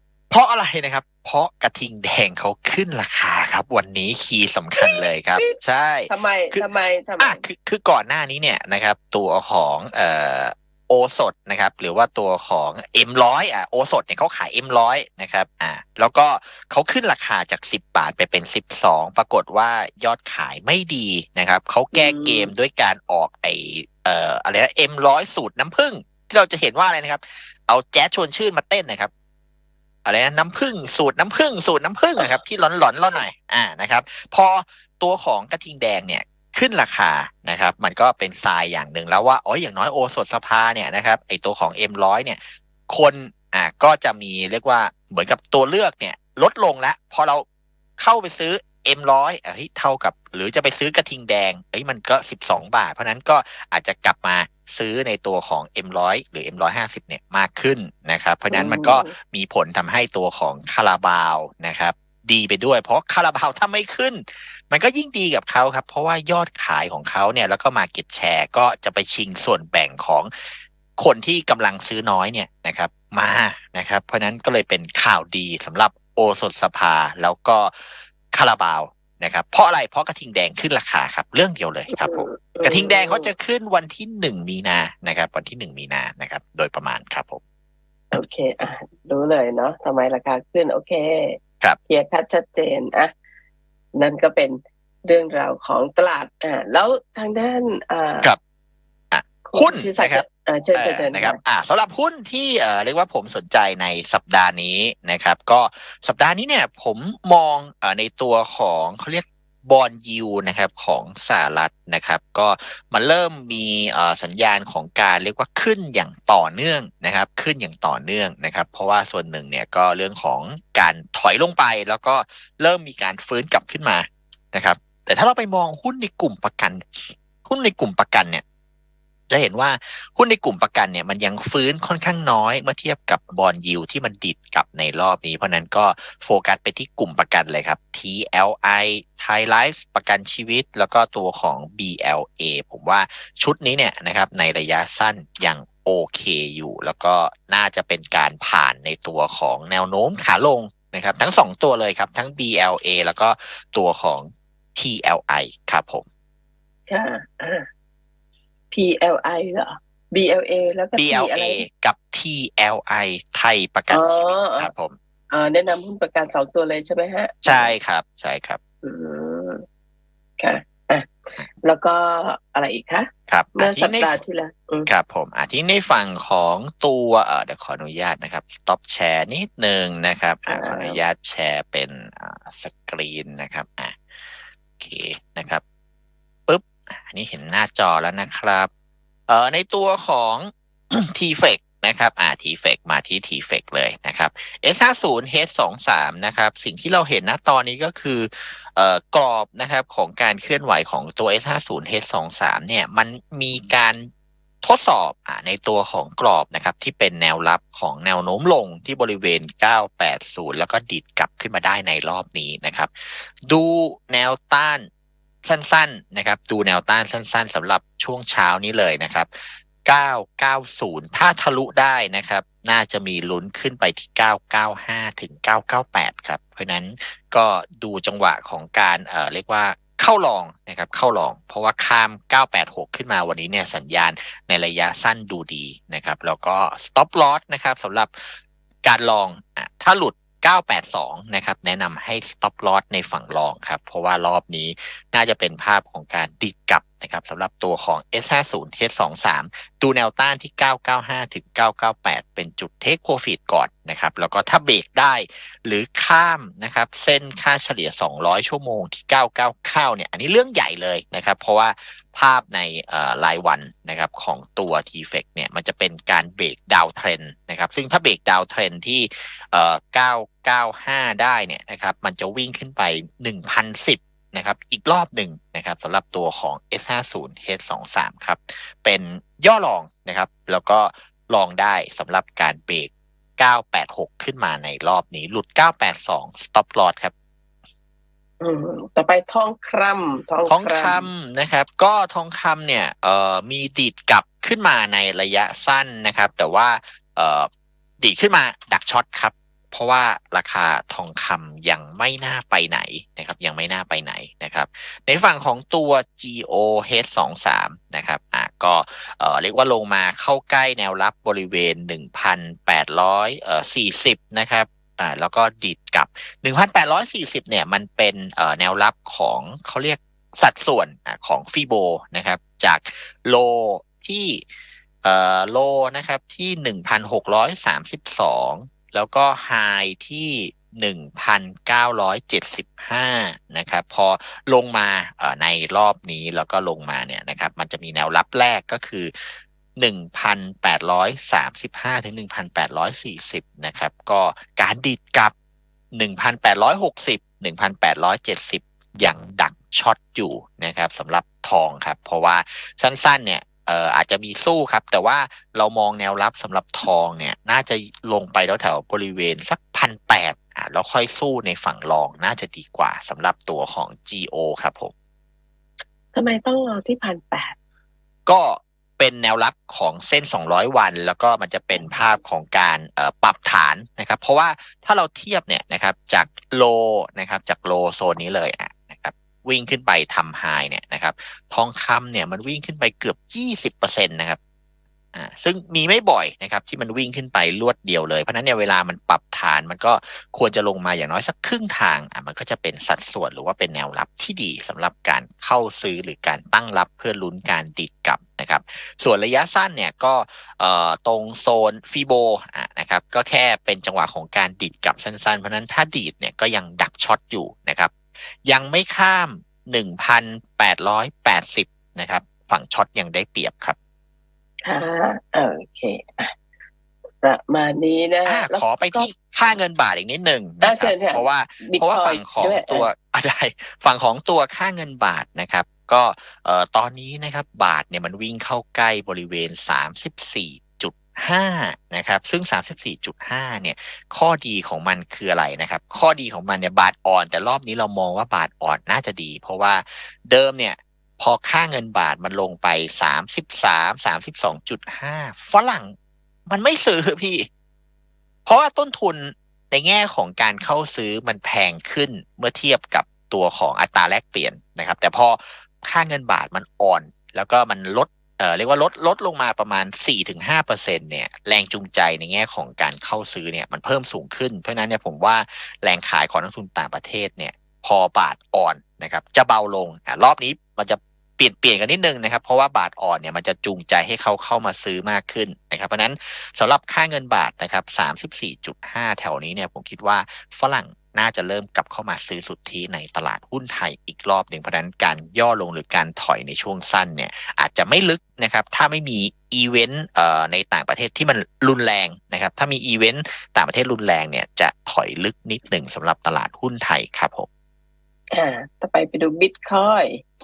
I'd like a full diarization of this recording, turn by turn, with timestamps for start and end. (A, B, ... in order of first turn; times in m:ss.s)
0:00.3-0:06.7 A
0:04.8-0:05.6 B
0:06.1-0:07.4 B
0:07.2-0:29.1 A
0:21.9-0:22.5 B
0:30.0-0:47.4 A
0:48.0-1:27.4 A
0:58.5-0:59.1 B
1:21.9-1:23.3 B
1:28.1-1:33.1 B
1:34.0-1:38.3 B
1:39.1-1:40.2 A
1:39.5-1:41.4 B
1:40.8-2:08.4 A
2:09.3-2:36.0 A
2:36.9-2:37.7 B
2:38.7-2:41.6 B
2:41.0-2:45.0 A
2:43.9-2:44.7 B
2:45.3-2:47.8 B
2:47.4-2:48.6 A
2:48.8-2:49.6 B
2:50.4-2:54.9 B
2:53.3-2:54.2 A
2:54.9-3:04.0 A
3:00.5-3:01.0 B
3:04.8-3:05.6 A
3:06.5-3:08.7 A
3:09.3-3:24.1 A
3:24.6-3:34.9 A
3:35.4-4:47.1 A
4:48.4-4:51.1 B
4:50.5-4:57.5 A
4:58.0-5:24.4 A
5:25.0-5:39.1 A
5:39.8-5:45.3 A
5:45.9-6:04.9 A
6:06.1-6:07.6 B
6:08.3-6:24.4 A
6:25.2-6:53.8 A
6:54.6-6:56.3 B
6:57.2-6:59.1 B
6:58.3-7:25.9 A
7:00.6-7:02.9 B
7:26.5-7:27.5 A
7:28.5-8:17.5 A
8:18.3-8:20.2 B